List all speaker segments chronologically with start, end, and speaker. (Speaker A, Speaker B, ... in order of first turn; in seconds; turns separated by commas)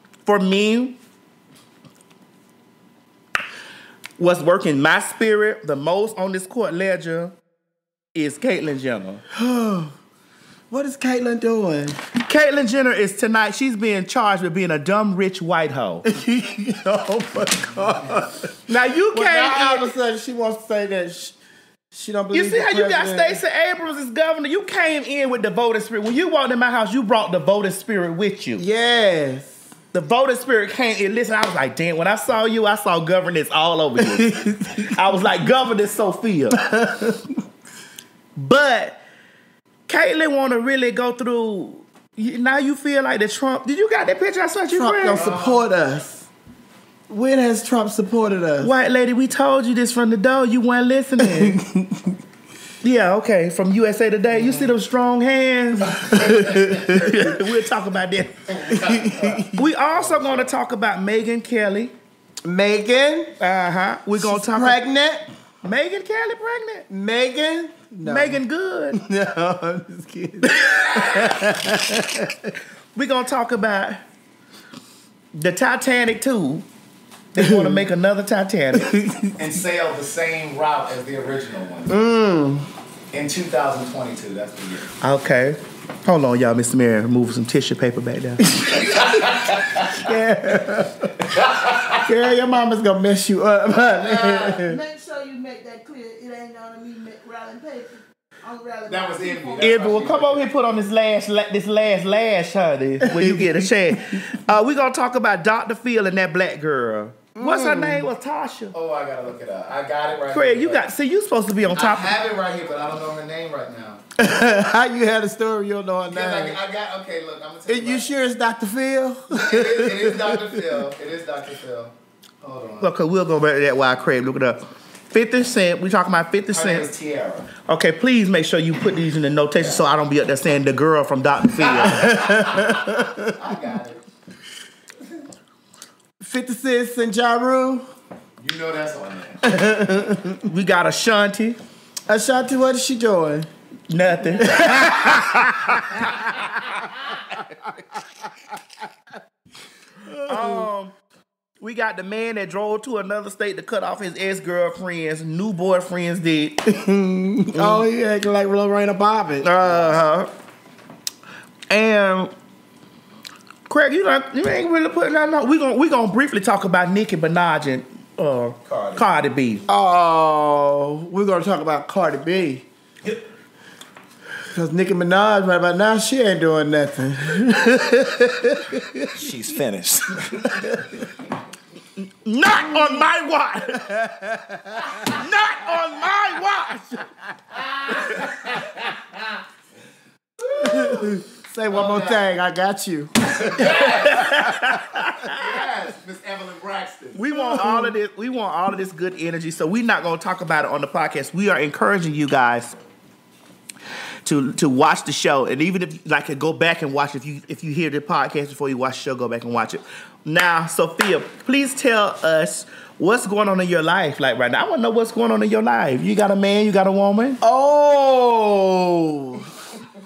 Speaker A: 0.2-1.0, Speaker A: 4.2-7.3, Speaker A: 8.1-9.2, Speaker B: 9.3-9.9, Speaker B: 10.7-12.0, Speaker A: 12.2-16.0, Speaker B: 16.1-18.5, Speaker A: 18.7-19.9, Speaker B: 19.1-21.4, Speaker B: 21.9-23.4, Speaker A: 22.3-28.6, Speaker B: 28.6-29.6, Speaker A: 29.9-36.6, Speaker B: 34.0-34.9, Speaker B: 36.6-37.4, Speaker A: 38.4-39.0, Speaker A: 39.9-45.3, Speaker B: 44.7-46.3, Speaker C: 45.1-45.6, Speaker B: 47.1-48.7, Speaker A: 48.6-51.6, Speaker B: 51.2-52.2, Speaker A: 52.8-58.8, Speaker B: 56.0-57.3, Speaker C: 58.6-60.5, Speaker B: 58.8-59.6, Speaker A: 59.5-61.9, Speaker B: 62.4-63.3, Speaker A: 63.4-64.8, Speaker B: 64.2-65.3, Speaker A: 65.6-66.8, Speaker B: 66.9-68.4, Speaker A: 68.0-69.0, Speaker B: 68.9-72.5, Speaker A: 70.7-71.5, Speaker A: 72.9-74.0, Speaker A: 75.3-76.6, Speaker A: 77.3-78.9, Speaker B: 77.4-77.8, Speaker B: 78.8-79.3, Speaker C: 79.3-81.9, Speaker B: 81.9-82.7, Speaker C: 83.1-84.9, Speaker A: 85.0-88.6, Speaker C: 88.7-90.0, Speaker B: 89.9-91.2, Speaker C: 91.3-92.0, Speaker B: 92.0-94.8, Speaker C: 94.0-94.6, Speaker D: 94.6-99.9, Speaker C: 98.9-100.5, Speaker A: 99.6-108.7, Speaker B: 103.1-103.6, Speaker B: 107.4-108.1, Speaker C: 108.7-110.9, Speaker A: 110.3-112.1, Speaker C: 111.7-114.0, Speaker B: 114.2-116.6, Speaker C: 116.1-118.1, Speaker B: 117.7-120.6, Speaker C: 119.3-122.9, Speaker A: 122.8-126.9, Speaker C: 126.5-127.5, Speaker A: 127.6-132.4, Speaker C: 129.5-129.8, Speaker C: 131.6-134.0, Speaker B: 132.0-133.3, Speaker B: 136.2-137.8, Speaker C: 138.4-139.6, Speaker B: 139.4-140.5, Speaker A: 140.4-141.6, Speaker B: 142.1-143.5, Speaker A: 143.9-146.1, Speaker B: 144.4-145.4, Speaker B: 150.0-150.7, Speaker A: 150.3-150.9, Speaker A: 151.6-156.7, Speaker B: 156.7-159.9, Speaker A: 157.5-157.8, Speaker A: 159.4-160.3, Speaker A: 161.7-162.3, Speaker A: 163.7-169.6, Speaker C: 168.6-169.0, Speaker B: 169.7-172.6, Speaker B: 174.4-179.1, Speaker C: 179.1-180.8, Speaker B: 180.5-180.9, Speaker A: 182.0-184.0, Speaker B: 184.0-184.9, Speaker A: 184.9-187.0, Speaker C: 187.5-189.4, Speaker C: 190.4-192.2, Speaker B: 190.5-194.2, Speaker C: 193.4-197.2, Speaker A: 193.7-195.5, Speaker A: 197.1-202.7, Speaker B: 197.3-197.9, Speaker A: 204.2-217.4, Speaker B: 217.4-219.5